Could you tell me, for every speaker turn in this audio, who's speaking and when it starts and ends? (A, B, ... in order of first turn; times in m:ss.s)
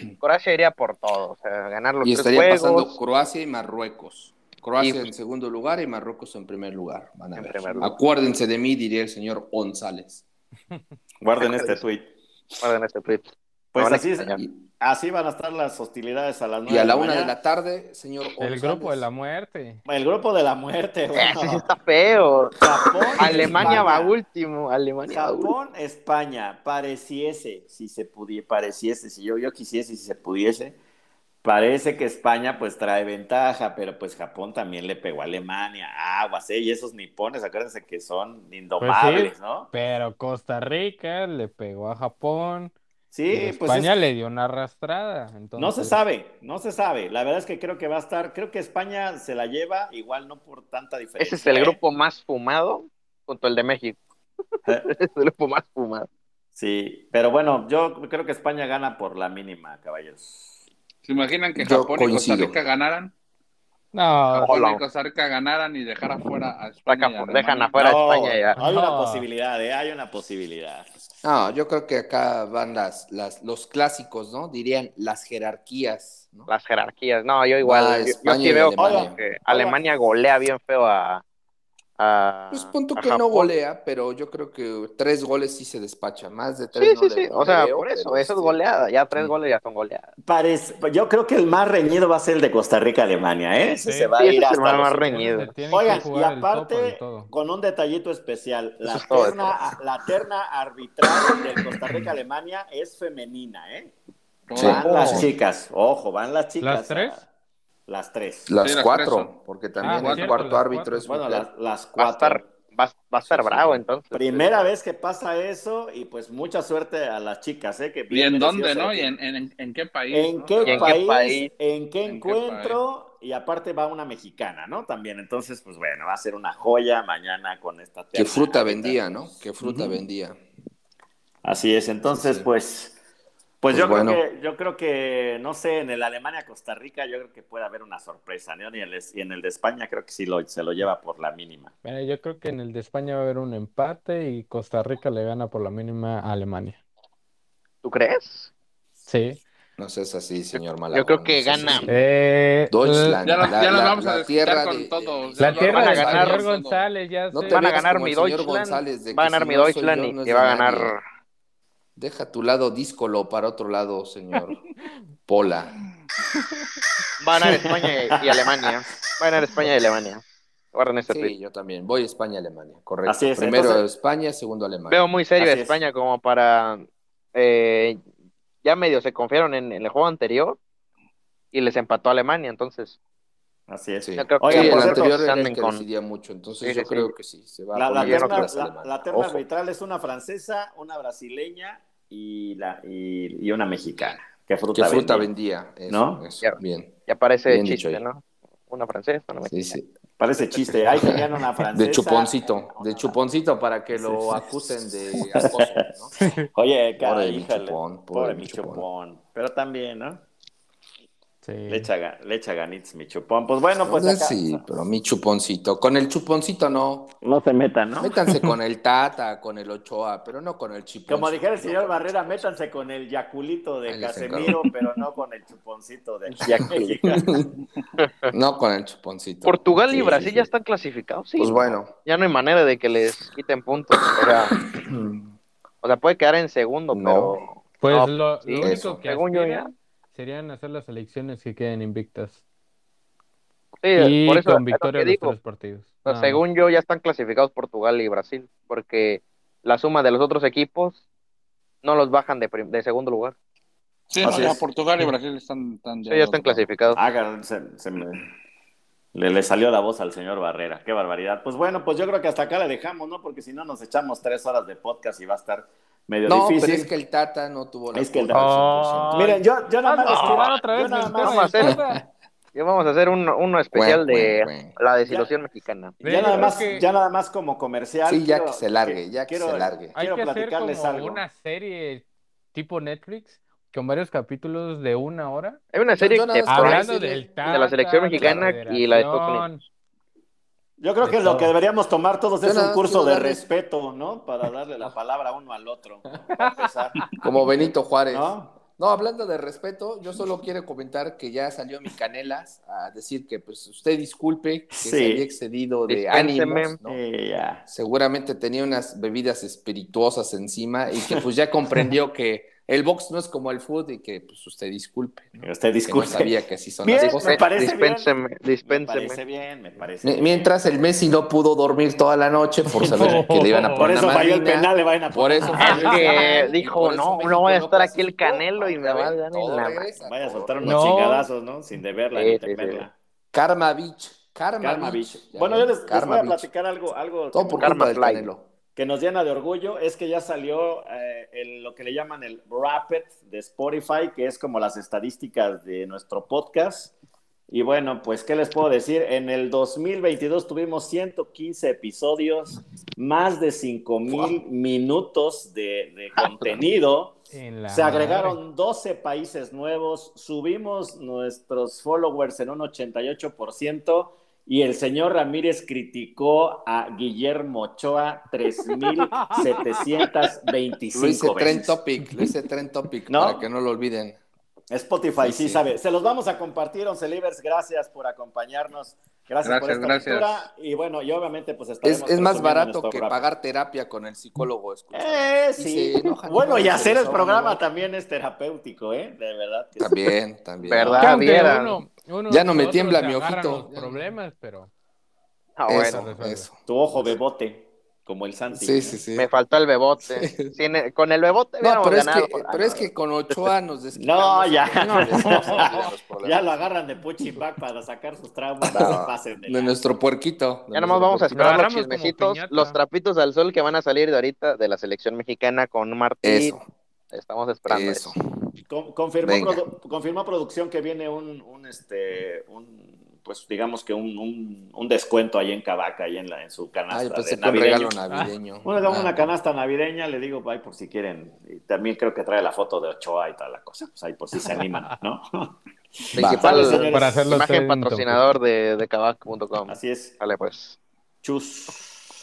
0:00.2-0:03.0 A
0:02.0-0:10.2 B
0:04.8-0:05.1 A
0:07.3-0:07.9 A
0:11.2-0:12.1 C
0:11.4-0:11.8 A
0:12.6-0:14.4 A
0:13.7-0:17.3 C
0:16.7-0:19.1 B
0:18.4-0:19.8 D
0:19.9-0:21.7 C
0:21.1-0:22.6 A
0:22.6-0:24.1 C
0:23.1-0:25.5 A
0:23.2-0:23.8 B
0:25.1-0:30.8 C
0:31.4-0:39.7 C
0:38.8-0:42.7 D
0:43.1-0:44.0 C
0:43.3-0:46.0 D
0:45.6-0:51.8 C
0:51.2-0:54.0 A
0:54.9-0:56.1 A
0:56.5-1:00.6 C
1:01.0-1:03.1 E
1:01.6-1:02.6 B
1:03.9-1:04.6 D
1:04.3-1:08.0 E
1:04.5-1:04.8 A
1:06.9-1:08.6 A
1:07.8-1:10.9 C
1:08.6-1:09.3 D
1:11.2-1:16.5 B
1:16.5-1:21.2 A
1:17.6-1:19.2 B
1:18.8-1:19.8 C
1:22.0-1:23.5 A
1:22.5-1:28.6 B
1:26.7-1:30.1 A
1:30.2-1:43.9 C
1:33.8-1:34.1 D
1:34.2-1:35.6 A
1:35.1-1:37.3 D
1:38.8-1:39.6 A
1:44.5-1:44.9 E
1:44.5-1:47.2 C
1:44.6-1:45.3 B
1:44.8-1:45.3 A
1:46.6-1:47.2 D
1:47.9-1:48.5 C
1:48.5-1:51.5 B
1:48.6-1:50.3 E
1:49.8-1:51.0 D
1:51.0-1:52.5 C
1:52.0-1:54.6 A
1:53.3-1:53.8 B
1:53.3-1:59.1 C
1:58.1-2:01.0 E
2:00.1-2:10.0 C
2:00.6-2:01.5 A
2:02.0-2:02.8 E
2:08.1-2:10.4 B
2:11.4-2:13.0 C
2:12.1-2:12.5 B
2:13.6-2:21.7 C
2:13.7-2:14.2 B
2:21.8-2:26.8 D
2:27.8-2:28.5 A
2:29.0-2:29.4 D
2:29.8-2:31.9 B
2:30.5-2:31.9 A
2:31.9-2:33.2 D
2:32.7-2:36.4 B
2:33.2-2:36.8 E
2:35.4-2:37.6 D
2:35.6-2:36.4 A
2:37.3-2:40.9 B
2:37.5-2:41.0 A
2:42.0-2:44.6 B
2:45.3-2:45.7 B
2:47.2-2:51.3 A
2:47.4-2:48.7 C
2:51.1-2:55.0 B
2:53.0-2:53.8 C
2:54.9-2:58.0 A
2:55.4-2:55.8 C
2:58.6-3:00.6 A
3:01.5-3:03.0 A
3:03.7-3:05.2 C
3:04.0-3:09.0 B
3:04.2-3:05.8 A
3:06.6-3:07.1 A
3:07.7-3:15.3 C
3:07.9-3:08.5 A
3:09.1-3:09.4 A
3:14.7-3:18.0 B
3:15.9-3:16.3 C
3:16.4-3:19.7 A
3:19.4-3:19.9 B
3:20.2-3:23.1 C
3:20.5-3:20.8 A
3:20.9-3:26.1 B
3:24.0-3:24.4 C
3:25.1-3:30.2 C
3:26.2-3:26.5 D
3:27.0-3:28.8 B
3:31.4-3:31.9 D
3:31.7-3:34.6 C
3:33.8-3:37.2 B
3:37.2-3:38.2 C
3:38.0-3:42.5 B
3:41.1-3:47.6 C
3:43.8-3:44.7 B
3:46.6-3:47.6 B
3:48.0-3:48.3 A
3:48.3-3:50.5 B
3:49.4-3:54.6 A
3:51.4-3:52.0 B
3:54.0-3:55.3 B
3:55.8-3:59.7 A
3:56.9-3:57.4 B
3:57.8-4:02.4 D
3:58.6-3:59.0 B
4:03.8-4:05.3 A
4:04.0-4:06.4 D
4:06.0-4:11.0 A
4:11.8-4:13.3 A
4:14.1-4:16.7 E
4:14.2-4:14.6 C
4:16.1-4:17.0 A
4:16.9-4:18.3 C
4:19.1-4:26.9 C
4:26.2-4:29.3 B
4:27.9-4:28.5 C
4:28.3-4:29.1 A
4:29.1-4:32.0 D
4:29.1-4:31.6 C
4:30.0-4:30.5 A
4:31.2-4:31.8 A
4:31.6-4:32.0 B
4:32.5-4:36.0 A
4:33.7-4:34.8 B
4:35.0-4:35.3 C
4:36.0-4:41.2 C
4:36.0-4:36.8 D
4:38.0-4:40.0 B
4:39.9-4:45.6 D
4:45.7-4:49.5 A
4:46.0-4:48.5 B
4:46.5-4:49.6 D
4:50.8-4:57.1 C
4:51.0-4:51.5 D
4:52.4-4:53.4 B
4:56.4-4:56.7 D
4:57.2-5:07.0 B
4:58.1-4:58.6 C
5:04.7-5:05.3 C
5:05.9-5:06.8 A
5:06.8-5:07.6 C
5:07.6-5:17.6 B
5:15.4-5:18.1 C
5:16.9-5:19.2 A
5:18.6-5:20.4 C
5:20.0-5:31.0 B
5:22.7-5:26.2 C
5:22.9-5:23.9 D
5:25.4-5:26.5 D
5:25.6-5:29.9 A
5:29.9-5:32.9 C
5:30.6-5:31.2 D
5:32.1-5:32.8 A
5:33.3-5:36.5 B
5:34.6-5:38.0 C
5:37.3-5:38.5 B
5:37.6-5:38.3 A
5:38.8-5:46.9 C
5:47.5-6:11.8 C
5:57.3-5:58.4 D
6:08.8-6:09.5 D
6:10.9-6:14.2 B
6:13.1-6:13.4 C
6:14.7-6:23.2 C
6:15.2-6:15.6 B
6:19.4-6:20.5 E
6:21.8-6:27.6 B
6:24.9-6:30.1 C
6:29.8-6:31.6 B
6:30.6-6:31.8 A
6:31.0-6:34.7 D
6:32.3-6:34.1 B
6:35.6-6:36.0 A
6:35.7-6:37.1 B
6:35.8-6:36.5 D
6:36.6-6:39.0 C
6:38.5-6:39.3 B
6:39.1-6:43.5 A
6:40.0-6:40.5 B
6:41.6-6:46.5 B
6:44.0-6:49.7 C
6:44.8-6:45.9 D
6:48.6-6:51.6 B
6:50.7-6:56.5 A
6:51.3-6:52.8 D
6:56.2-6:56.7 B
6:57.1-6:58.1 A
6:57.7-6:58.2 B
6:58.7-7:08.0 C
6:59.2-6:59.6 B
7:06.9-7:09.3 B
7:08.6-7:17.3 C
7:16.1-7:20.8 A
7:16.2-7:16.9 B
7:16.9-7:18.2 D
7:19.7-7:20.2 C
7:21.2-7:22.0 C